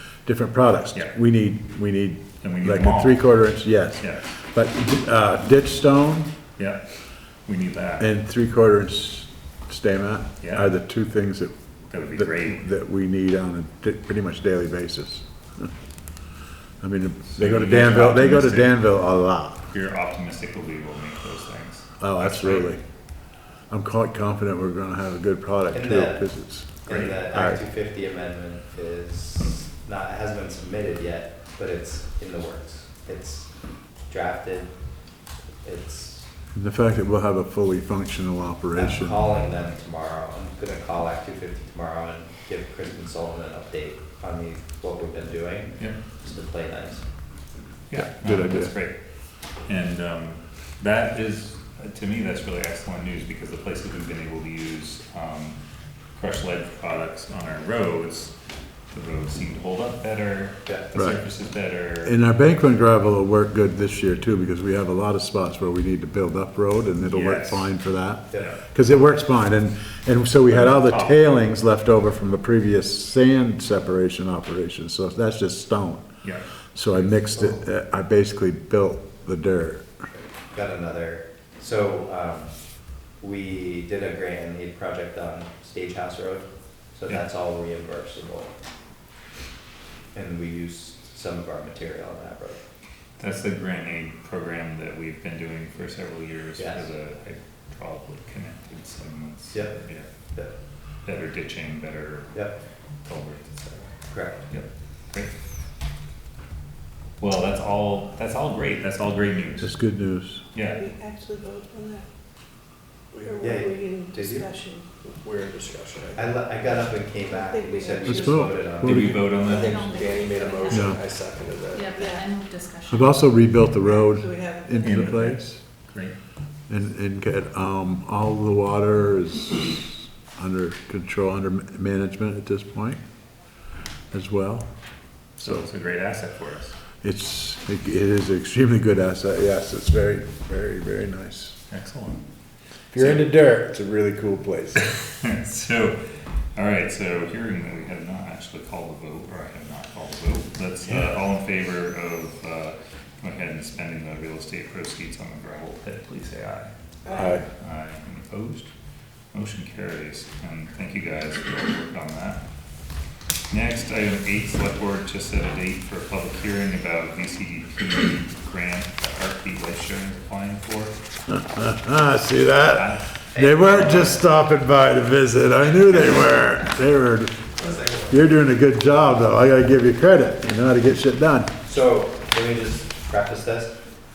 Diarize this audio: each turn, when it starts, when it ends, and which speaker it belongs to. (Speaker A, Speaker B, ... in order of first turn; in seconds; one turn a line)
Speaker A: 0.3-6.3
Speaker B: 2.4-3.2
Speaker B: 4.0-4.3
Speaker B: 6.6-6.8
Speaker B: 7.5-8.1
Speaker A: 8.0-11.5
Speaker B: 10.4-10.7
Speaker B: 11.9-12.7
Speaker A: 12.1-15.7
Speaker A: 16.8-19.6
Speaker B: 17.3-18.8
Speaker B: 19.7-22.7
Speaker A: 22.0-22.8
Speaker A: 23.7-27.6
Speaker C: 25.7-26.2
Speaker C: 26.9-33.5
Speaker B: 26.9-27.2
Speaker C: 34.1-34.7
Speaker C: 35.6-36.3
Speaker A: 36.5-39.3
Speaker C: 38.8-47.0
Speaker B: 47.9-49.0
Speaker A: 47.9-48.7
Speaker B: 49.6-55.6
Speaker B: 56.1-58.4
Speaker B: 58.9-62.2
Speaker A: 61.0-61.2
Speaker A: 62.0-76.1
Speaker B: 67.0-67.7
Speaker B: 70.5-71.2
Speaker A: 76.7-79.9
Speaker C: 80.1-82.5
Speaker C: 83.2-88.5
Speaker C: 90.1-92.6
Speaker B: 93.2-100.1
Speaker C: 96.6-96.8
Speaker C: 99.5-100.5
Speaker B: 101.0-102.4
Speaker B: 103.0-103.9
Speaker C: 104.1-104.4
Speaker B: 104.5-105.3
Speaker B: 107.2-109.7
Speaker A: 109.6-110.5
Speaker B: 110.5-110.8
Speaker D: 110.8-112.1
Speaker D: 113.2-114.9
Speaker C: 113.4-114.5
Speaker E: 114.9-116.3
Speaker C: 116.2-119.4
Speaker D: 117.2-118.5
Speaker A: 118.0-119.2
Speaker B: 118.8-119.7
Speaker F: 119.4-120.9
Speaker E: 119.4-122.0
Speaker A: 120.7-121.0
Speaker F: 121.7-123.2
Speaker A: 122.9-125.6
Speaker D: 123.7-125.0
Speaker B: 124.8-126.1
Speaker A: 126.7-133.0
Speaker A: 134.1-134.7
Speaker A: 135.4-135.7
Speaker B: 135.4-136.8
Speaker A: 137.0-141.6
Speaker B: 141.7-142.2
Speaker A: 142.9-144.8
Speaker B: 142.9-143.3
Speaker B: 145.2-146.0
Speaker B: 146.6-156.7
Speaker D: 157.1-157.3
Speaker A: 157.1-157.4
Speaker B: 157.6-158.7
Speaker B: 159.3-162.4
Speaker B: 163.5-171.0
Speaker A: 171.3-181.5
Speaker B: 172.7-174.2
Speaker C: 173.3-174.2
Speaker C: 177.6-178.0
Speaker E: 177.8-178.1
Speaker C: 181.6-183.7